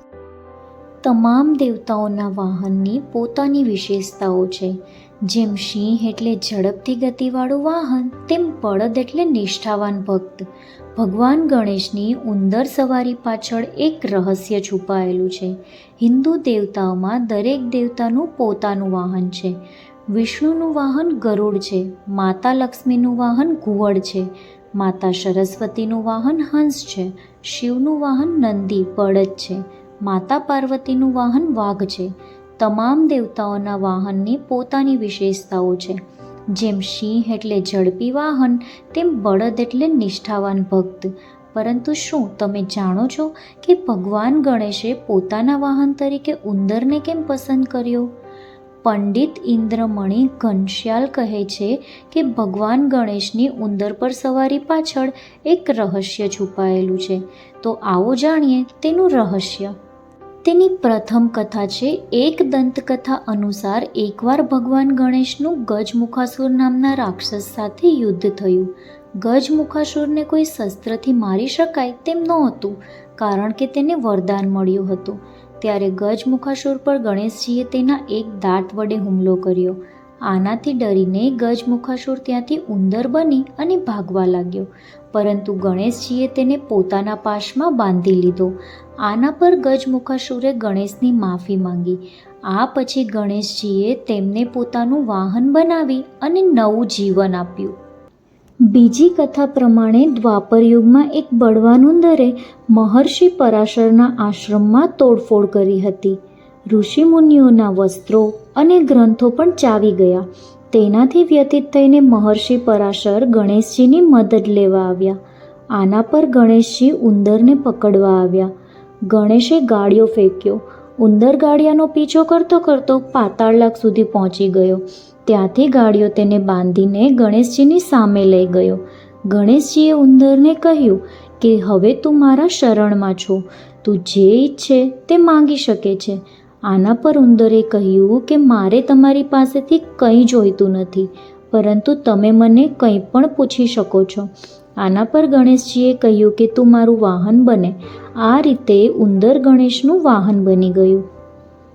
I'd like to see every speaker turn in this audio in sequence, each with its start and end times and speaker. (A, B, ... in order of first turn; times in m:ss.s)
0:01.0-0:19.6 A
0:20.1-0:36.0 A
0:36.5-0:48.1 A
0:48.8-0:59.8 A
1:00.4-1:37.8 A
1:38.7-1:46.2 A
1:46.7-1:55.2 A
1:55.7-1:58.5 A
1:59.1-2:31.0 A